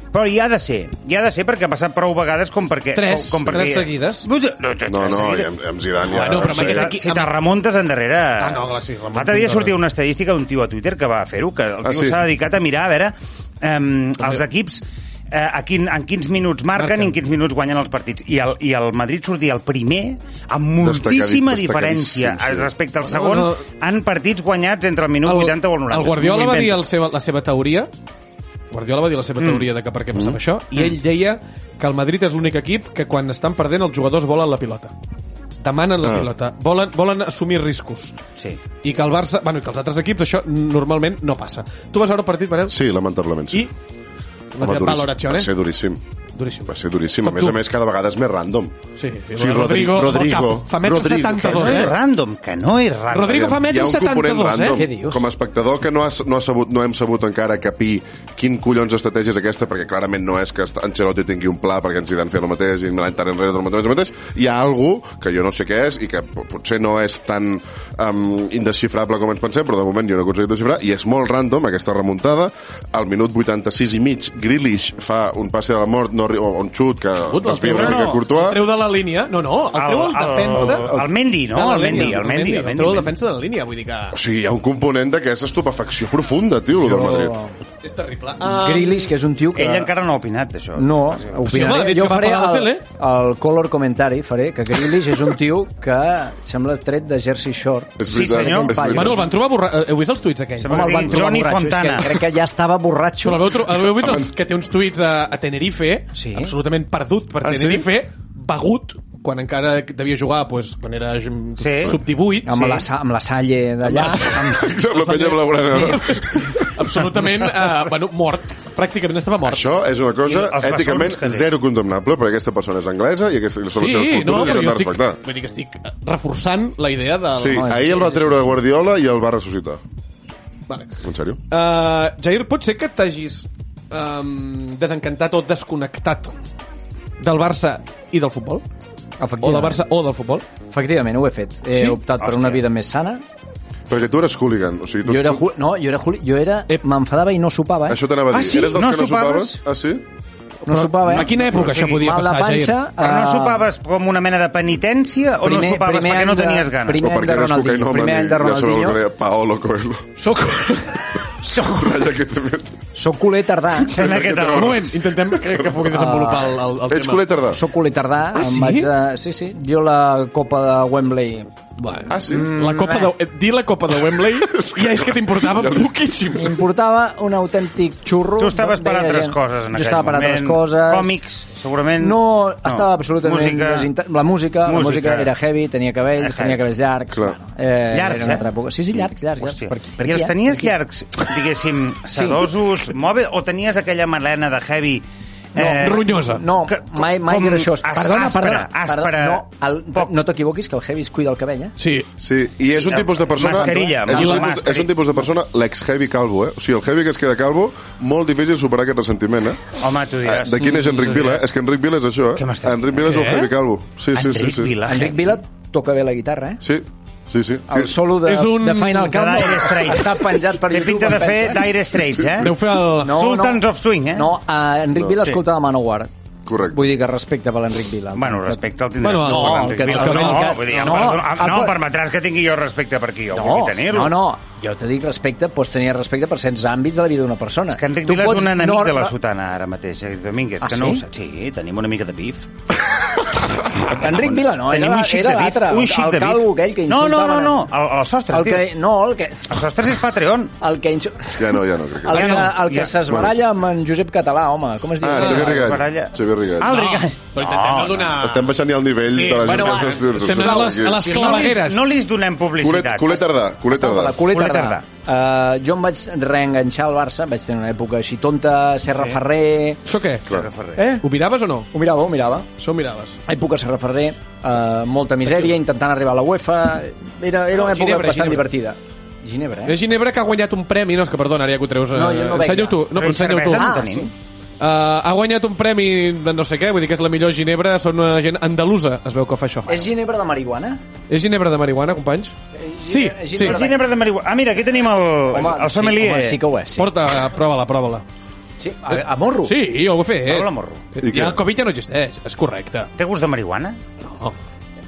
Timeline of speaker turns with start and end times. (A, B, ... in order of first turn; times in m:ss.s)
0:00.1-0:05.5 A
0:02.9-0:04.3 B
0:04.9-0:07.0 C
0:06.1-0:07.4 B
0:06.2-0:26.8 A
0:08.4-0:09.8 B
0:11.8-0:12.2 C
0:16.8-0:17.2 B
0:20.8-0:22.7 C
0:23.0-0:23.6 B
0:25.2-0:27.9 B
0:28.7-0:34.9 B
0:29.4-0:29.7 A
0:30.1-0:30.4 C
0:35.6-0:38.1 B
0:36.0-0:36.3 C
0:38.8-0:42.8 B
0:42.7-0:43.7 C
0:44.6-0:45.5 B
0:44.6-0:46.0 C
0:46.4-0:47.6 B
0:46.7-0:48.8 C
0:49.0-0:52.0 B
0:49.4-0:52.0 C
0:51.0-0:53.6 A
0:53.1-0:54.8 B
0:53.3-1:18.6 C
0:54.7-0:55.2 D
1:17.3-1:20.9 B
1:17.6-1:18.2 A
1:19.7-1:23.1 A
1:20.6-1:21.1 C
1:21.5-1:24.2 B
1:24.1-1:27.4 C
1:26.8-1:27.5 D
1:27.8-1:29.1 B
1:28.4-1:29.9 D
1:29.6-1:31.4 A
1:30.8-1:39.2 D
1:31.5-1:32.8 B
1:38.0-1:39.3 C
1:38.1-1:38.9 A
1:38.9-1:41.1 B
1:40.6-1:42.1 A
1:40.7-1:43.5 D
1:43.2-1:52.8 B
1:44.0-1:44.3 C
1:46.1-1:46.5 D
1:47.4-1:47.9 C
1:51.6-1:52.0 A
1:52.4-1:54.4 D
1:53.9-1:59.7 B
1:54.4-1:54.7 A
1:54.4-1:57.4 C
1:59.4-2:05.2 C
2:00.2-2:01.5 A
2:03.8-2:08.2 B
2:07.3-2:09.8 C
2:07.5-2:08.4 D
2:11.0-2:11.4 C
2:11.5-2:16.4 B
2:17.2-2:18.6 B
2:19.2-2:19.8 D
2:19.4-2:20.4 B
2:20.7-2:23.2 D
2:21.7-2:22.0 B
2:22.2-2:22.6 A
2:23.9-2:25.4 C
2:25.0-2:28.0 D
2:27.9-2:30.0 C
2:28.4-2:28.7 B
2:28.4-2:29.6 A
2:30.6-2:33.7 D
2:30.7-2:32.8 B
2:31.2-2:32.1 A
2:33.0-2:37.0 A
2:35.4-2:39.0 D
2:37.0-2:40.1 C
2:40.2-2:42.0 D
2:41.6-2:42.8 C
2:43.0-2:44.0 D
2:43.8-2:45.9 C
2:43.9-2:45.0 A
2:44.4-2:47.3 B
2:45.9-2:46.6 D
2:46.9-2:47.6 C
2:47.5-2:51.5 D
2:48.3-2:48.9 B
2:51.8-2:56.6 B
2:52.1-2:52.5 C
2:52.2-2:53.1 D
2:54.5-2:55.9 C
2:56.4-3:01.2 D
2:58.4-3:03.9 A
3:02.0-3:10.8 D
3:04.6-3:05.3 A
3:06.2-3:06.6 A
3:07.1-3:07.4 C
3:07.9-3:08.5 A
3:09.4-3:15.0 A
3:12.1-3:12.5 D
3:15.6-3:20.1 A
3:15.6-3:21.7 D
3:15.8-3:16.4 B
3:21.8-3:22.1 B
3:22.2-3:34.8 C
3:22.7-3:24.9 A
3:23.6-3:24.0 D
3:24.1-3:24.5 B
3:29.8-3:31.4 A
3:32.4-3:33.0 A
3:33.0-3:33.5 B
3:34.1-3:35.4 A
3:34.9-3:36.6 D
3:36.6-3:38.0 C
3:37.7-3:41.7 D
3:38.2-3:39.5 B
3:39.0-3:44.3 A
3:42.1-3:42.5 C
3:42.4-3:43.2 B
3:43.0-3:46.1 D
3:45.0-3:45.4 C
3:46.5-3:46.9 C
3:46.7-3:48.6 D
3:48.2-3:54.2 A
3:49.0-3:51.1 B
3:49.2-3:51.8 D
3:53.3-3:59.1 D
3:57.7-4:02.5 A
4:00.6-4:01.0 D
4:03.7-4:08.7 A
4:03.8-4:07.7 D
4:08.3-4:09.6 D
4:09.5-4:10.5 A
4:10.6-4:15.8 D
4:11.3-4:12.4 C
4:12.1-4:13.0 A
4:12.2-4:12.6 B
4:13.1-4:13.4 C
4:15.0-4:16.8 C
4:15.2-4:18.2 A
4:15.2-4:15.6 B
4:16.7-4:18.5 B
4:18.2-4:21.1 C
4:19.1-4:21.9 B
4:19.4-4:21.6 D
4:21.0-4:23.3 A
4:22.6-4:24.2 C
4:23.7-4:29.8 D
4:24.3-4:24.8 A
4:28.9-4:29.2 A
4:29.8-4:30.3 B
4:30.3-4:30.8 A
4:30.8-4:31.1 D
4:31.0-4:31.7 B
4:31.7-4:32.5 D
4:32.5-4:33.2 B
4:33.3-4:39.8 D
4:35.3-4:35.5 B
4:37.5-4:38.5 B
4:39.7-4:43.8 B
4:41.9-4:42.9 D
4:42.9-4:44.1 A
4:43.5-4:44.1 D
4:44.6-4:49.9 B
4:49.7-4:50.8 D
4:51.1-4:52.4 B
4:52.5-4:53.8 D
4:52.9-4:53.6 B
4:53.4-4:56.4 A
4:55.3-4:56.9 D
4:56.8-4:58.0 B
4:58.6-4:59.6 D
4:59.4-5:02.9 B
5:00.2-5:00.8 A
5:01.0-5:01.4 C
5:03.0-5:03.8 A